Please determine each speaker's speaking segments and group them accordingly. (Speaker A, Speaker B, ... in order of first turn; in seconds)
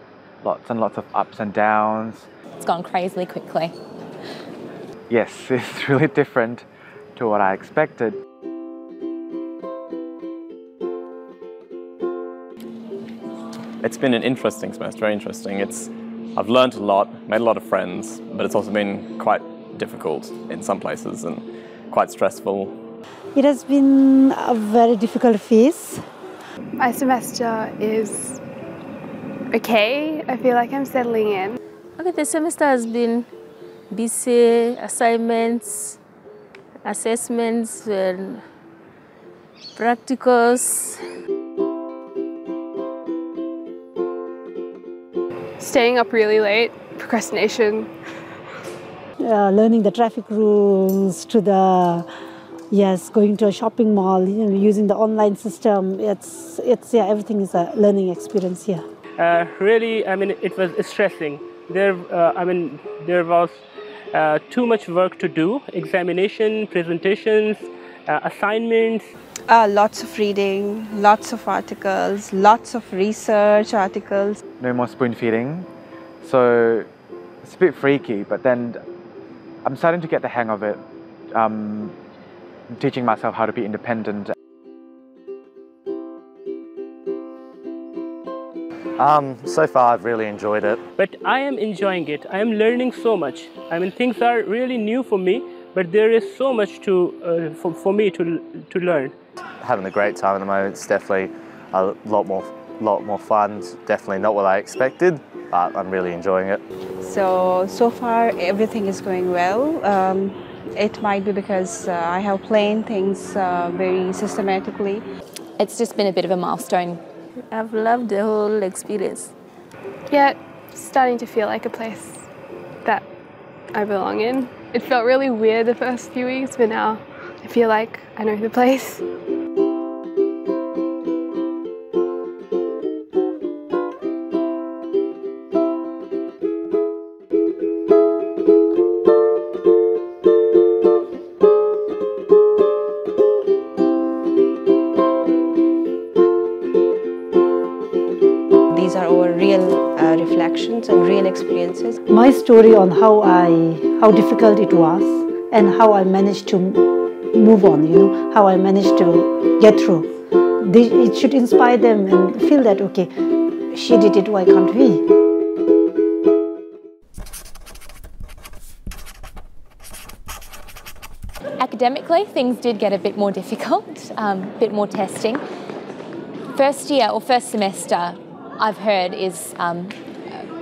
Speaker A: 0.4-2.3, 5.1-8.2, 74.6-75.7, 76.2-76.9, 77.4-78.8, 79.6-80.8, 81.3-82.0, 82.7-84.3
Speaker B: 2.6-3.7, 115.6-117.0, 171.6-175.4, 176.5-179.9
Speaker C: 13.8-22.7
Speaker D: 23.3-26.0, 49.2-52.1, 52.7-58.8, 152.1-160.1, 160.6-163.1, 163.7-165.0
Speaker E: 26.8-28.4, 29.5-31.6, 45.6-47.9, 120.1-122.2, 123.7-129.0
Speaker F: 32.0-33.3, 33.9-36.0, 36.8-38.4, 39.7-41.0, 117.5-119.3
Speaker G: 59.2-69.1, 91.0-99.1
Speaker H: 69.5-74.4, 107.0-115.0, 148.7-152.0
Speaker I: 89.0-90.8, 99.6-106.6